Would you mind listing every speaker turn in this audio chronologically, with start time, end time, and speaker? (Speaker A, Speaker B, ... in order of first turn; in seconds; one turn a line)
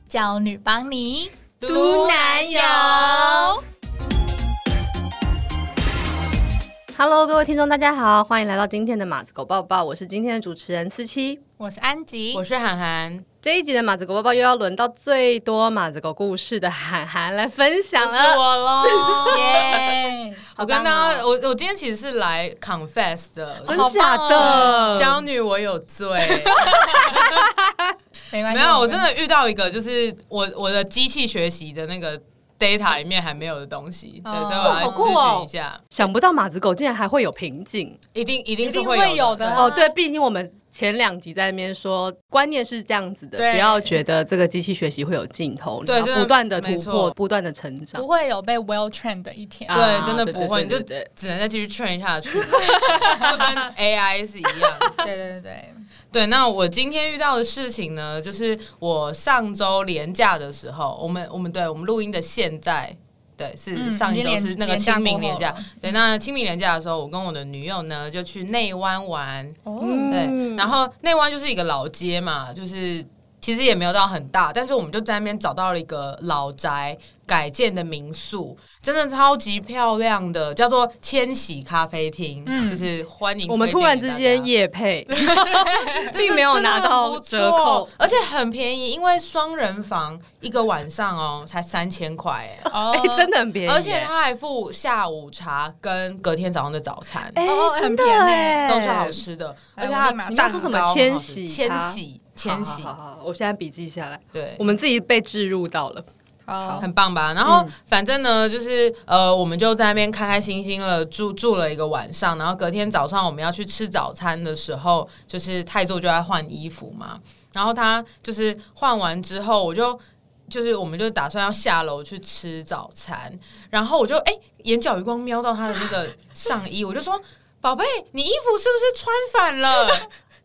Speaker A: 0.1-1.3
Speaker B: 1.6-3.3
Speaker C: 1.6-3.6
Speaker A: 2.6-3.6
Speaker C: 6.9-11.4
Speaker A: 11.6-12.4
Speaker B: 12.3-13.2
Speaker C: 13.4-19.9
Speaker B: 18.0-19.8
Speaker A: 19.3-20.5
Speaker B: 20.6-27.5
Speaker C: 20.6-21.2
Speaker A: 23.7-25.2
Speaker C: 23.7-25.2
Speaker A: 26.4-27.2
Speaker C: 27.0-27.8
Speaker A: 28.3-29.1
Speaker B: 28.5-35.8
Speaker A: 34.2-35.2
Speaker C: 34.6-38.0
Speaker B: 38.1-39.8
Speaker A: 38.6-40.0
Speaker C: 39.6-48.0
Speaker A: 43.4-44.0
Speaker B: 45.9-47.1
Speaker A: 47.9-50.1
Speaker C: 49.7-51.1
Speaker B: 49.7-55.0
Speaker A: 55.0-55.9
Speaker B: 56.1-84.5
Speaker A: 63.7-66.0
Speaker A: 69.7-70.2
Speaker C: 69.8-70.7
Speaker A: 82.5-82.9
Speaker C: 83.5-87.9
Speaker A: 85.4-86.1
Speaker B: 85.4-92.7
Speaker A: 92.7-93.3
Speaker C: 92.7-94.1
Speaker B: 93.7-97.4
Speaker C: 97.3-99.2
Speaker A: 97.4-98.7
Speaker B: 98.6-102.9
Speaker A: 99.8-100.9
Speaker C: 100.3-106.1
Speaker B: 104.3-104.8
Speaker A: 106.5-106.9
Speaker B: 106.8-130.1
Speaker C: 107.5-107.7